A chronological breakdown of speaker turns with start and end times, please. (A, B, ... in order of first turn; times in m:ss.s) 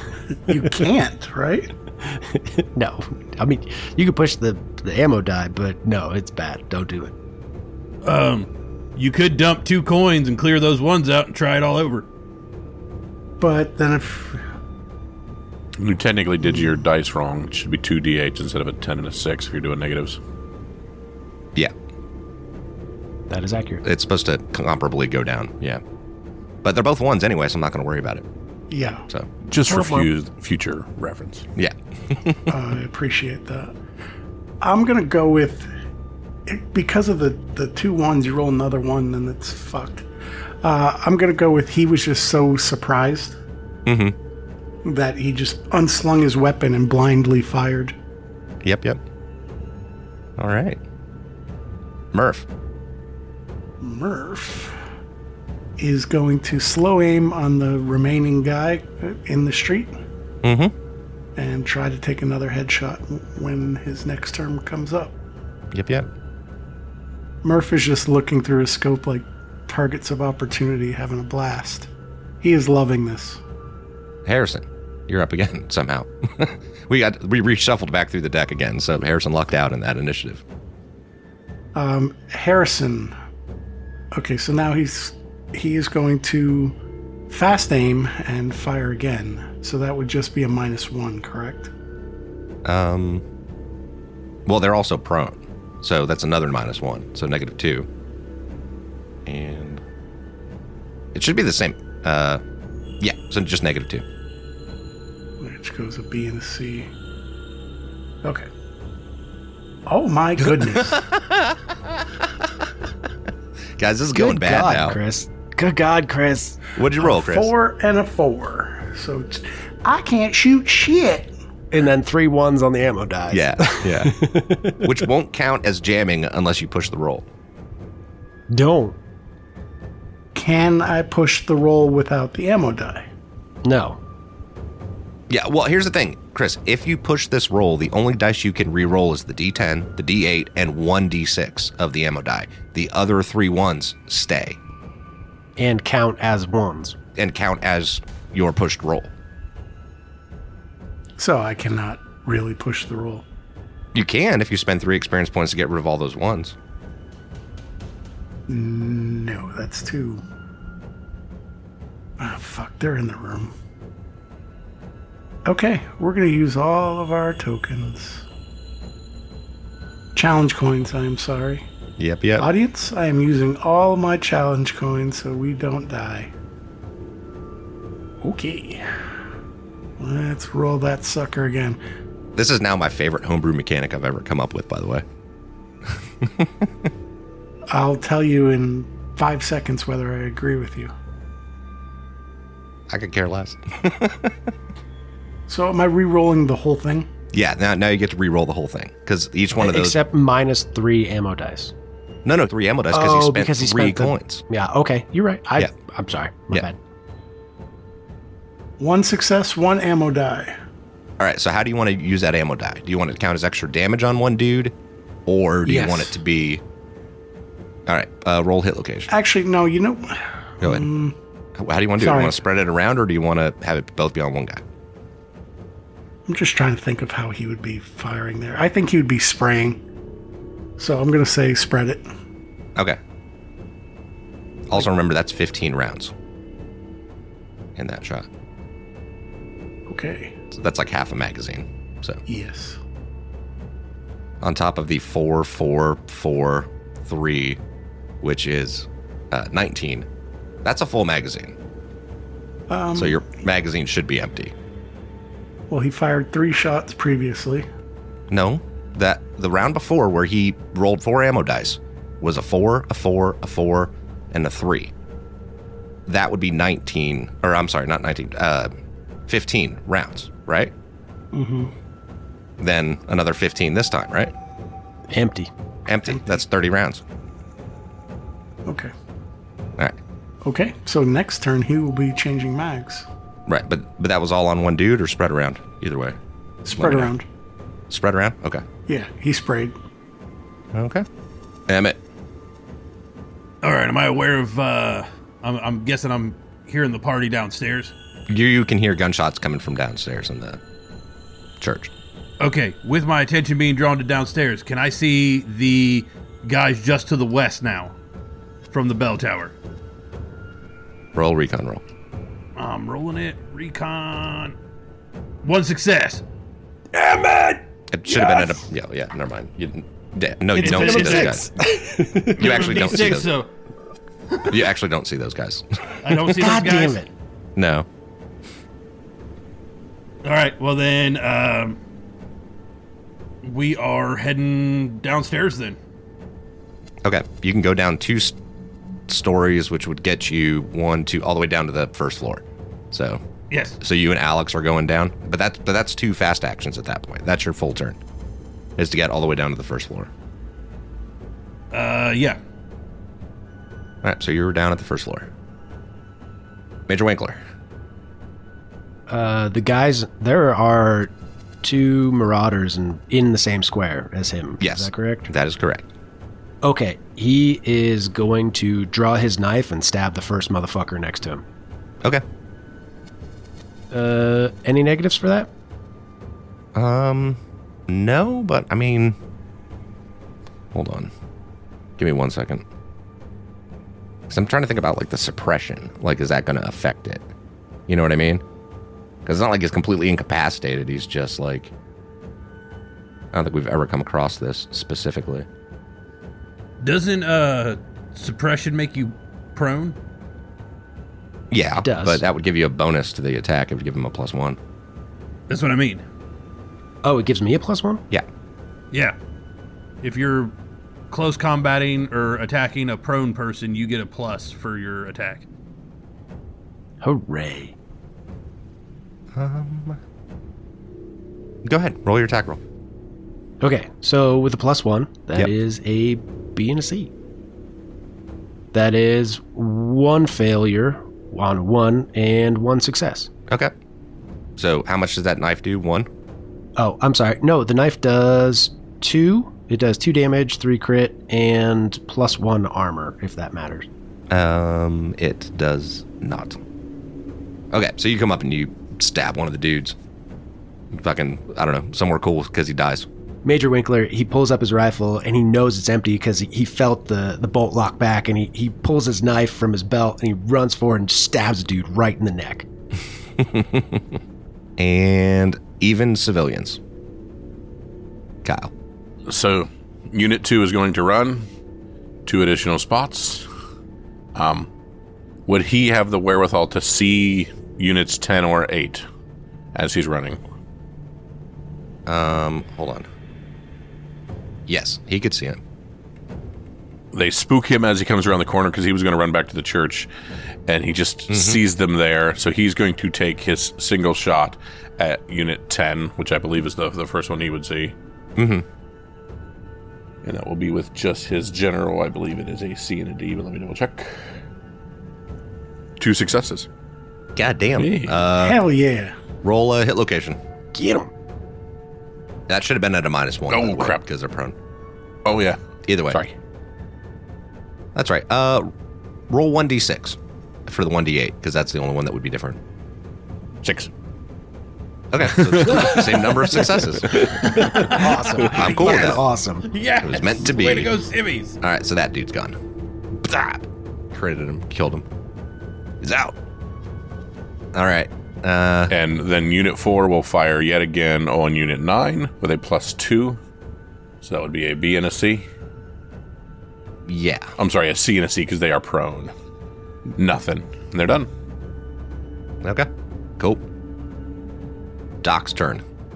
0:00.5-0:00.8 A
0:00.5-0:01.7 B
0:02.0-0:07.1 A
0:08.0-0:12.1 C
0:13.4-0:14.4 B
0:15.8-0:20.2 D
0:16.4-0:16.8 B
0:23.3-0:23.8 A
0:23.8-0:25.8 E
0:26.6-0:28.2 E
0:28.7-0:29.0 B
0:29.5-0:31.5 D
0:29.7-0:30.1 A
0:31.6-0:32.5 E
0:32.5-0:33.7 B
0:34.6-0:35.7 B
0:36.5-0:40.0 B
0:40.6-0:43.4 B
0:43.8-0:44.1 E
0:44.8-0:47.9 B
0:48.6-0:49.0 E
0:50.4-0:50.8 E
0:52.1-0:52.4 E
0:53.8-0:54.8 B
0:55.8-0:59.9 B
1:00.4-1:00.7 E
1:01.4-1:05.1 B
1:05.7-1:06.1 E
1:07.4-1:11.9 B
1:12.4-1:13.4 B
1:14.2-1:20.4 E
1:21.7-1:23.1 B
1:24.1-1:26.7 B
1:27.3-1:31.7 B
1:32.6-1:33.2 E
1:34.4-1:37.9 E
1:39.2-1:39.8 E
1:41.1-1:42.4 E
1:43.0-1:44.0 E
1:45.4-1:46.9 B
1:49.9-1:51.0 B
1:50.6-1:51.6 E
1:53.8-1:55.0 E
1:54.1-1:56.6 A
1:56.8-1:57.5 E
1:57.0-2:01.3 B
2:01.7-2:05.0 A
2:03.3-2:04.2 E
2:04.8-2:07.2 E
2:08.5-2:09.0 A
2:10.3-2:13.0 B
2:13.6-2:14.0 A
2:15.3-2:24.6 E
2:25.6-2:27.0 A
2:27.2-2:29.1 E
2:31.2-2:33.2 B
2:33.9-2:36.5 E
2:38.5-2:40.2 B
2:42.2-2:43.5 B
2:45.4-2:48.2 B
2:50.1-2:51.6 B
2:52.0-2:52.5 E
2:52.4-2:56.3 B
2:58.2-2:58.9 B
3:00.0-3:01.8 B
3:02.4-3:05.0 E
3:06.2-3:06.7 E
3:07.7-3:10.9 B
3:12.9-3:14.3 E
3:15.5-3:17.1 B
3:17.3-3:20.0 E
3:19.5-3:21.7 A
3:22.2-3:24.4 E
3:22.9-3:26.8 A
3:28.8-3:30.5 B
3:31.2-3:34.7 E
3:35.3-3:36.6 E
3:35.6-3:36.2 A
3:37.9-3:39.1 E
3:39.1-3:41.2 B
3:41.6-3:44.6 E
3:42.0-3:42.4 B
3:46.3-3:49.8 B
3:50.8-3:52.0 B
3:54.7-3:56.1 E
3:57.8-3:58.2 E
3:59.9-4:00.3 B
4:00.5-4:02.2 E
4:02.3-4:02.8 B
4:04.4-4:07.6 E
4:08.2-4:10.0 E
4:10.6-4:11.6 E
4:12.7-4:13.2 B
4:12.9-4:14.5 E
4:15.7-4:17.6 B
4:18.3-4:24.9 E
4:26.1-4:28.7 E
4:29.3-4:30.7 E
4:31.3-4:31.7 B
4:32.6-4:34.3 E
4:35.1-4:35.5 A
4:35.9-4:37.0 E
4:38.6-4:38.9 B
4:40.4-4:43.0 B
4:43.5-4:46.2 E
4:46.6-4:47.2 B
4:46.7-4:47.1 E
4:47.9-4:48.6 E
4:48.9-4:49.7 B
4:50.7-4:51.0 E
4:51.7-4:52.0 E
4:53.6-4:57.9 C
4:58.3-5:00.6 E
5:01.6-5:01.9 E
5:02.4-5:07.9 C
5:08.7-5:09.5 C
5:11.1-5:11.8 E
5:12.6-5:14.5 C
5:15.4-5:16.2 C
5:17.9-5:21.5 E
5:20.6-5:23.0 A
5:20.6-5:21.4 C
5:22.3-5:23.3 E
5:22.3-5:23.5 C
5:24.4-5:26.1 E
5:26.0-5:27.0 C
5:26.3-5:27.1 A
5:27.6-5:27.8 E
5:30.2-5:31.8 C
5:33.4-5:35.8 C
5:37.0-5:38.4 E
5:39.1-5:43.2 E
5:43.5-5:43.8 C
5:43.8-5:48.0 E
5:48.8-5:50.1 E
5:51.7-5:52.4 C
5:54.0-5:55.3 E
5:56.9-5:57.4 E
5:59.1-6:01.1 A
6:01.6-6:05.3 A
6:04.6-6:05.9 E
6:06.6-6:11.4 A
6:13.9-6:15.5 A
6:16.7-6:19.2 E
6:20.7-6:21.1 E
6:22.0-6:22.6 E
6:24.3-6:27.2 E
6:27.9-6:28.4 E
6:29.2-6:31.7 E
6:33.3-6:35.4 E
6:36.8-6:40.0 C
6:41.5-6:44.6 E
6:41.8-6:42.2 A
6:45.5-6:46.0 C
6:47.0-6:48.0 A
6:50.0-6:50.5 C
6:51.1-6:55.4 C
6:57.0-6:57.7 A
6:59.3-7:00.0 E
7:01.6-7:02.6 E
7:03.6-7:07.1 A
7:08.7-7:13.3 A
7:14.6-7:16.1 E
7:16.8-7:23.9 A
7:24.3-7:26.6 E
7:27.7-7:29.9 E
7:30.9-7:33.0 E
7:33.4-7:42.7 A
7:43.4-7:44.0 E
7:44.8-7:46.8 E
7:48.4-7:48.7 E
7:49.3-7:51.4 D
7:52.2-7:53.4 D
7:54.3-7:54.7 D
7:55.5-7:59.0 D
7:59.7-8:00.4 D
8:02.1-8:03.1 E
8:04.7-8:05.6 E
8:07.1-8:10.1 D
8:10.7-8:17.9 D
8:11.3-8:11.6 E
8:18.4-8:18.6 E
8:20.2-8:24.2 D
8:26.0-8:26.7 D
8:27.4-8:28.6 E
8:27.8-8:28.2 D
8:28.4-8:29.2 B
8:29.4-8:30.4 E
8:30.7-8:31.1 A
8:32.5-8:34.5 E
8:33.5-8:34.0 D
8:35.2-8:35.6 D
8:35.8-8:36.2 E
8:37.9-8:38.7 E
8:39.3-8:42.6 E
8:43.6-8:43.9 D
8:45.1-8:47.6 E
8:45.2-8:48.7 D
8:47.4-8:49.7 A
8:47.9-8:49.1 C
8:48.4-8:49.2 E
8:49.7-8:51.6 C
8:50.0-8:50.9 E
8:51.6-8:52.6 E
8:53.2-8:55.0 E
8:56.0-8:56.3 E
8:57.7-8:58.9 E
8:58.9-9:03.4 D
9:04.2-9:05.4 D
9:07.1-9:07.5 E
9:07.6-9:09.3 D
9:10.1-9:11.3 D
9:12.6-9:12.9 E
9:13.4-9:13.6 E
9:15.2-9:15.8 E